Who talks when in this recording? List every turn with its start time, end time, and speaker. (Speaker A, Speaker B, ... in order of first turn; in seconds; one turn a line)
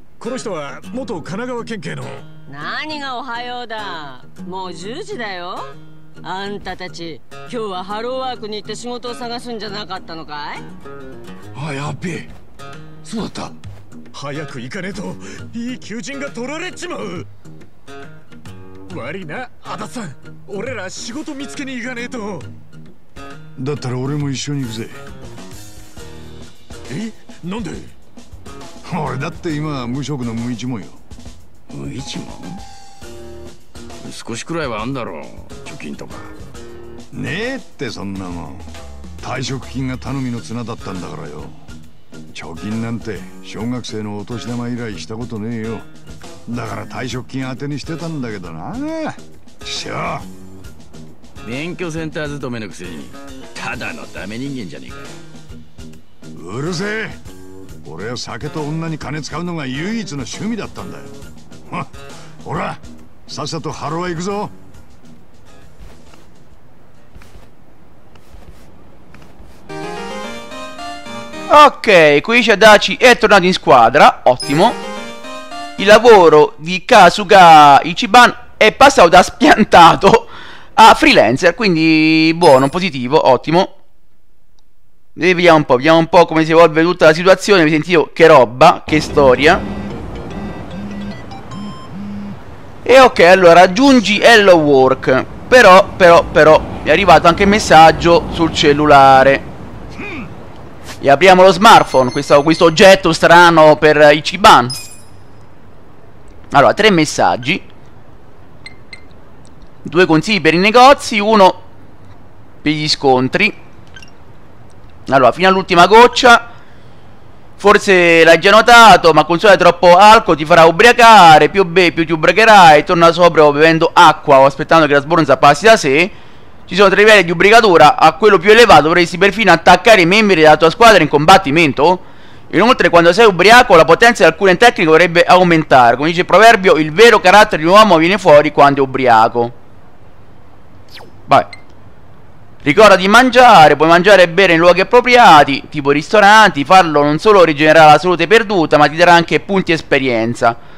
Speaker A: 0.2-2.3
Speaker B: 2.5-10.7
Speaker C: 11.6-12.3
Speaker C: 13.0-13.6
Speaker A: 14.1-17.3
Speaker A: 18.9-22.5
Speaker D: 23.6-25.0
Speaker A: 26.9-27.9
Speaker D: 28.8-31.0
Speaker C: 31.7-32.6
Speaker C: 34.0-36.3
Speaker D: 37.1-41.7
Speaker D: 42.3-45.9
Speaker D: 46.5-50.3
Speaker C: 51.4-55.2
Speaker D: 56.3-57.2
Speaker D: 57.8-61.1
Speaker D: 61.7-64.5
Speaker E: 71.5-74.8
Speaker E: 75.8-83.7
Speaker E: 85.2-89.7
Speaker E: 92.8-99.5
Speaker E: 101.0-104.8
Speaker E: 106.5-107.6
Speaker E: 109.8-111.6
Speaker E: 112.6-113.5
Speaker E: 115.1-116.5
Speaker E: 117.6-126.1
Speaker E: 126.7-139.5
Speaker E: 142.6-150.6